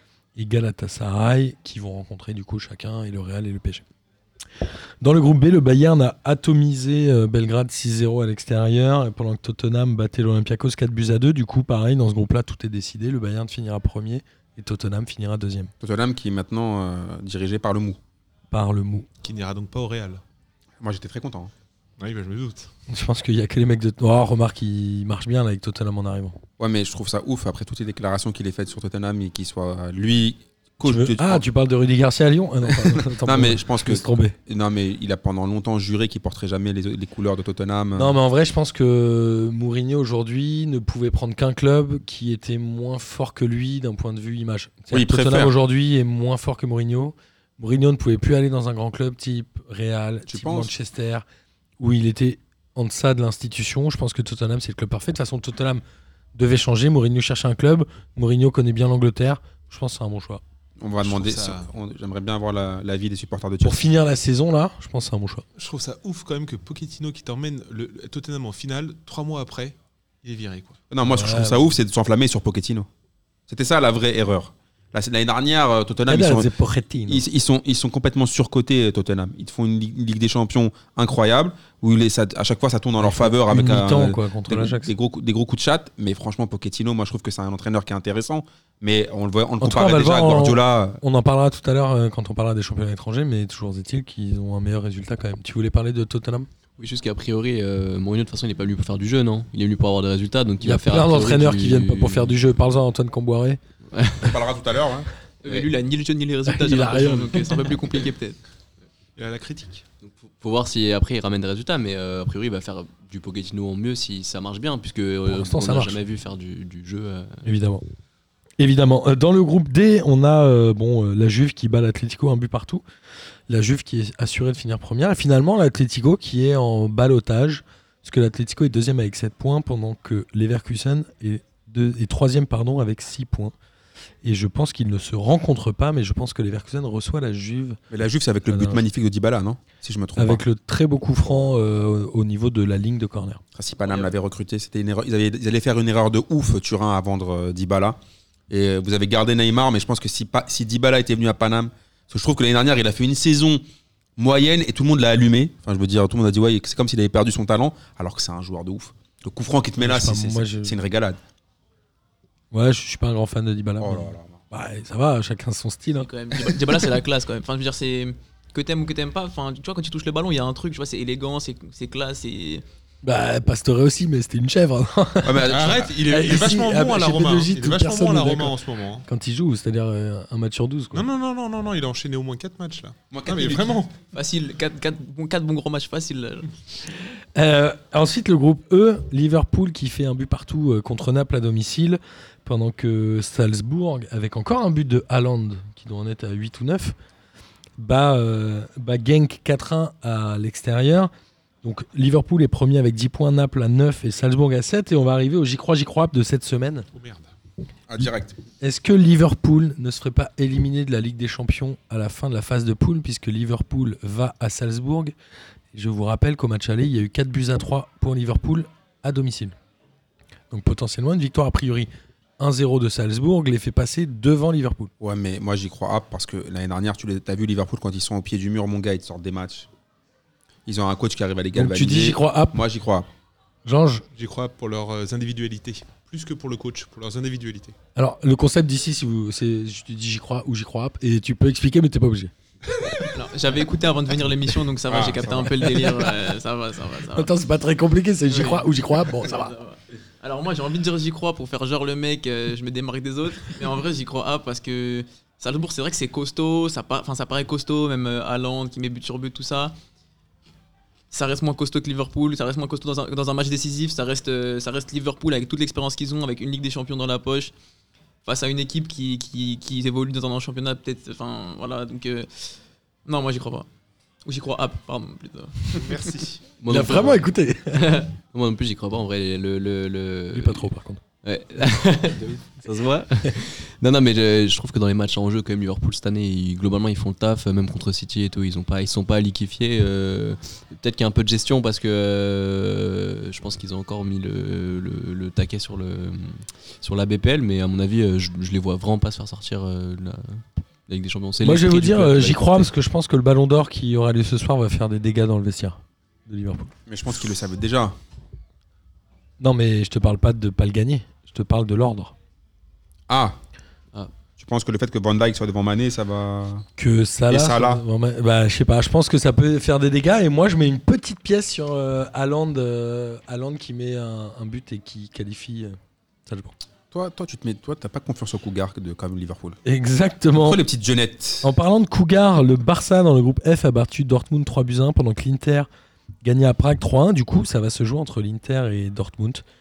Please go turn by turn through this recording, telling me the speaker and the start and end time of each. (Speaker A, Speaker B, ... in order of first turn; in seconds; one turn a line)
Speaker A: 0.4-3.8
Speaker A: 5.0-15.7
Speaker B: 15.8-18.0
Speaker A: 18.5-19.1
Speaker C: 19.2-20.2
Speaker B: 20.8-21.5
Speaker C: 22.0-22.7
Speaker A: 22.9-26.4
Speaker B: 26.6-31.4
Speaker A: 30.8-34.4
Speaker B: 32.7-38.1
Speaker A: 37.9-51.2
Speaker B: 44.9-45.5
Speaker B: 50.3-50.7
Speaker A: 51.8-55.8
Speaker A: 56.4-60.4
Speaker B: 60.8-63.9
Speaker C: 61.0-61.7
Speaker A: 63.6-65.4
Speaker C: 65.6-70.8
Speaker B: 70.9-72.9
Speaker A: 71.0-71.7
Speaker B: 73.5-76.5
Speaker A: 76.1-77.2
Speaker B: 77.1-91.0
Speaker A: 83.0-84.9
Speaker A: 89.6-96.5
Speaker D: 96.8-102.4
Speaker A: 100.6-103.6
Speaker D: 103.9-104.3
Speaker B: 104.2-105.1
Speaker E: 105.4-108.4
Speaker A: 106.5-107.6
Speaker C: 109.2-109.8
Speaker D: 110.0-117.4
Speaker A: 115.3-116.0
Speaker A: 117.4-117.8
Speaker A: 118.6-122.8
Speaker A: 123.5-133.5
Speaker A: 134.2-137.8
Speaker B: 137.9-140.4
Speaker A: 138.4-138.8
Speaker A: 140.2-143.4
Speaker B: 143.6-148.0
Speaker B: 148.5-153.6
Speaker B: 154.2-161.2
Speaker A: 159.8-160.8
Speaker A: 162.5-166.1
Speaker B: 163.8-164.4
Speaker E: 166.0-172.6
Speaker A: 173.0-181.1
Speaker B: 175.2-175.9
Speaker C: 175.5-179.1
Speaker C: 180.9-183.9
Speaker B: 183.1-183.8
Speaker E: 184.1-186.6
Speaker A: 187.3-196.9
Speaker A: 197.8-201.1
Speaker A: 201.6-206.9
Speaker C: 206.9-207.3
Speaker B: 207.9-208.4
Speaker A: 208.6-215.1
Speaker A: 215.7-219.6
Speaker A: 220.5-224.9
Speaker B: 225.0-229.7
Speaker B: 230.7-233.1
Speaker A: 231.6-232.6
Speaker A: 233.6-234.1
Speaker C: 234.1-237.8
Speaker A: 237.9-242.3
Speaker E: 243.0-247.3
Speaker B: 244.9-245.6
Speaker A: 245.6-246.1
Speaker A: 247.1-249.5
Speaker E: 248.3-259.8
Speaker E: 261.1-267.5
Speaker E: 268.2-273.7
Speaker E: 274.2-275.9
Speaker C: 275.7-276.4
Speaker D: 276.6-280.7
Speaker A: 276.7-278.1
Speaker A: 280.3-281.0
Speaker D: 281.2-302.7
Speaker A: 301.4-306.7
Speaker B: 306.9-307.9
Speaker A: 309.4-312.1
Speaker B: 313.1-313.4
Speaker B: 314.4-316.6
Speaker A: 316.8-326.6
Speaker B: 317.3-317.8
Speaker B: 326.9-329.6
Speaker A: 329.6-330.6
Speaker B: 330.4-331.5
Speaker A: 331.4-335.7
Speaker A: 336.2-339.4